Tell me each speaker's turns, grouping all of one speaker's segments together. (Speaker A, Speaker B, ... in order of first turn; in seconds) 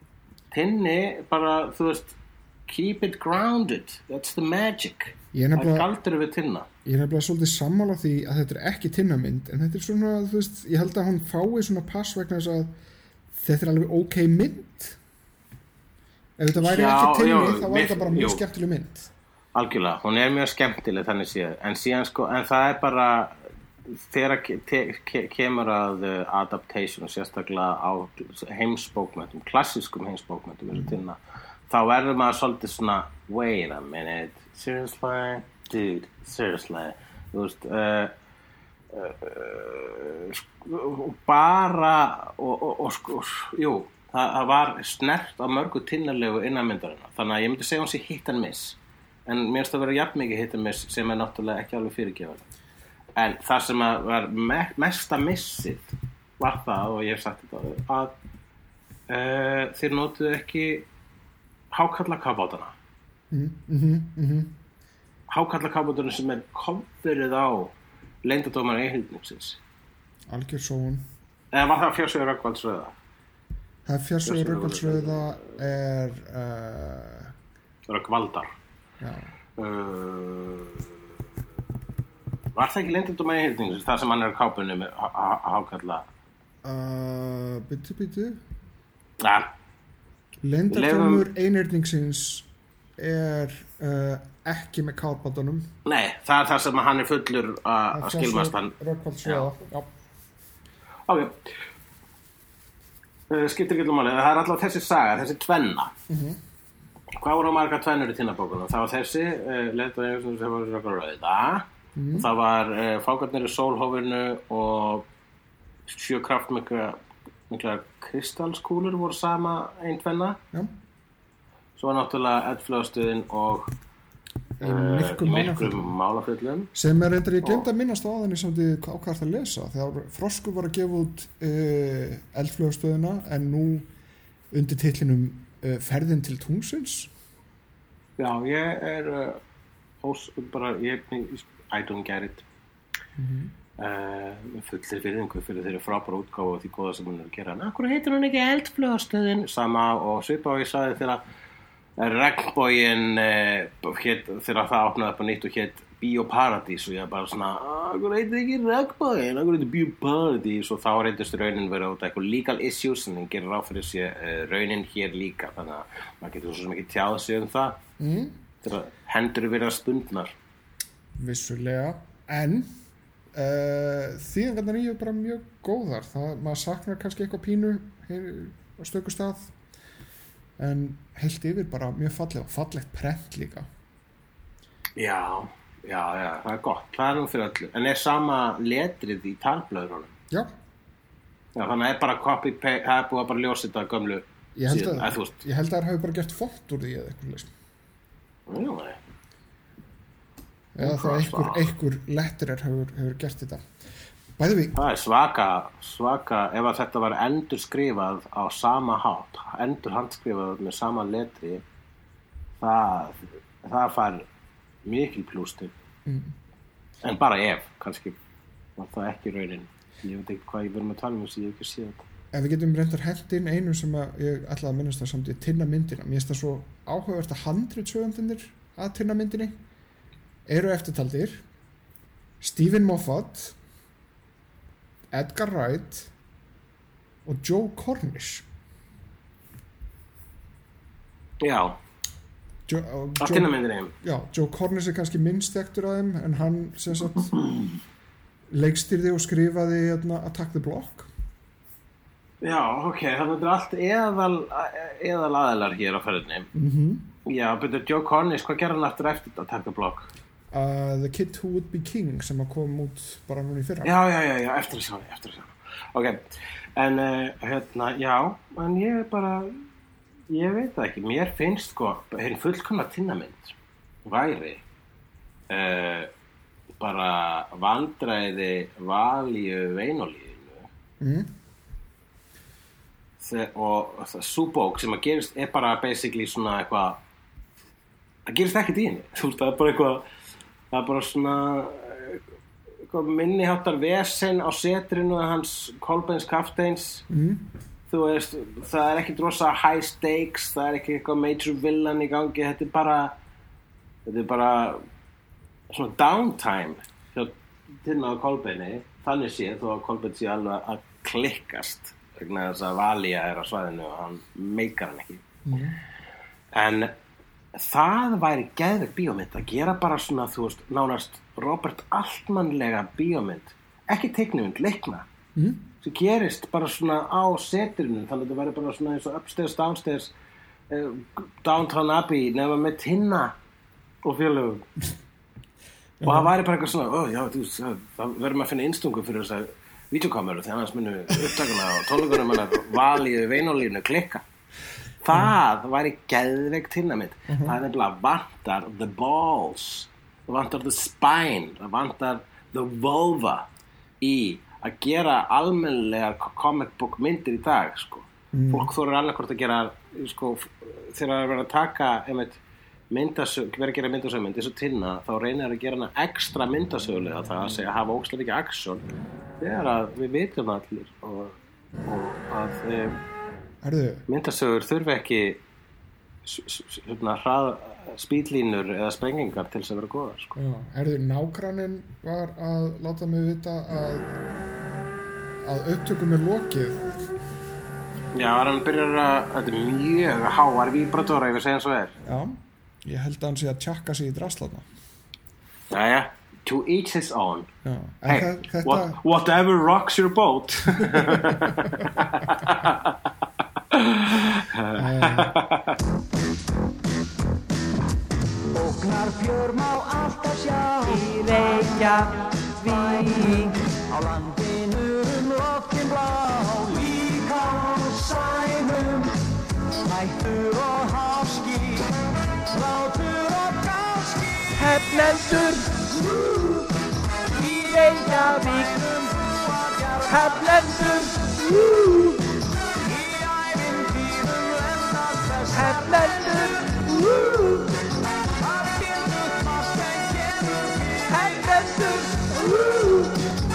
Speaker A: 0.5-2.2, 2.7-6.7, 16.6-18.4, 19.5-38.1, 38.9-52.4, 53.2-58.1, 59.1-60.9, 61.7-62.7, 65.3-69.6, 71.5-73.0, 74.2-75.2, 77.9-78.5, 79.6-80.9, 82.5-86.0, 89.2-89.5, 90.7-91.3, 95.8-98.7, 101.1-101.5, 103.3-105.9, 107.2-115.1, 115.9-117.0, 117.5-120.4, 121.8-123.7, 124.6-126.7, 138.2-139.4, 140.0-142.4, 143.8-151.2, 152.0-167.8, 168.6-170.3, 185.0-190.1, 191.5-195.3, 198.5-199.0, 200.8-201.7, 204.7-211.6, 212.6-214.3, 214.8-215.7, 217.0-218.2, 218.8-222.0, 241.4-241.8, 243.2-243.9, 252.4-256.5, 257.2-260.1, 263.8-269.6, 270.3-274.6, 275.5-276.1, 276.8-280.7, 283.2-287.0, 288.3-290.0, 290.7-292.2, 292.8-297.1, 297.9-303.1, 304.1-304.8, 305.7-315.2, 316.5-316.9, 317.5-325.1, 325.8-330.1, 330.7-333.3, 334.0-334.7, 336.0-344.2, 345.0-353.5, 354.0-362.4, 362.9-368.8, 369.4-373.0, 374.1-375.4, 376.2-380.3, 388.1-391.9, 395.7-397.5, 398.1-403.0, 403.7-405.8
Speaker B: 5.3-5.9, 6.8-12.7, 13.3-15.0, 16.4-19.1, 63.3-64.5, 70.3-71.0, 73.8-77.3, 79.0-79.3, 86.6-88.4, 90.4-95.7, 97.9-99.9, 106.1-106.4, 112.0-112.3, 124.6-125.9, 126.7-133.9, 134.5-137.1, 143.2-143.5, 168.0-168.3, 171.1-172.7, 173.3-179.5, 180.6-183.7, 194.5-197.5, 200.7-203.7, 204.4-204.8, 216.1-216.3, 222.3-229.6, 230.5-231.4, 232.4-233.6, 235.1-236.1, 237.2-238.4, 242.7-247.3, 248.5-251.1, 256.5-257.1, 260.5-263.9, 281.0-281.3, 297.1-297.5, 315.4-315.8, 325.4-325.6, 336.0-336.3, 347.3-347.6, 358.3-358.7, 373.6-374.1, 380.4-384.1, 385.4-386.9, 392.0-394.6, 397.6-399.0, 400.8-401.4, 404.8-405.4
Speaker C: 408.5-419.1, 419.8-421.9, 422.5-426.7, 427.3-437.8, 438.3-443.3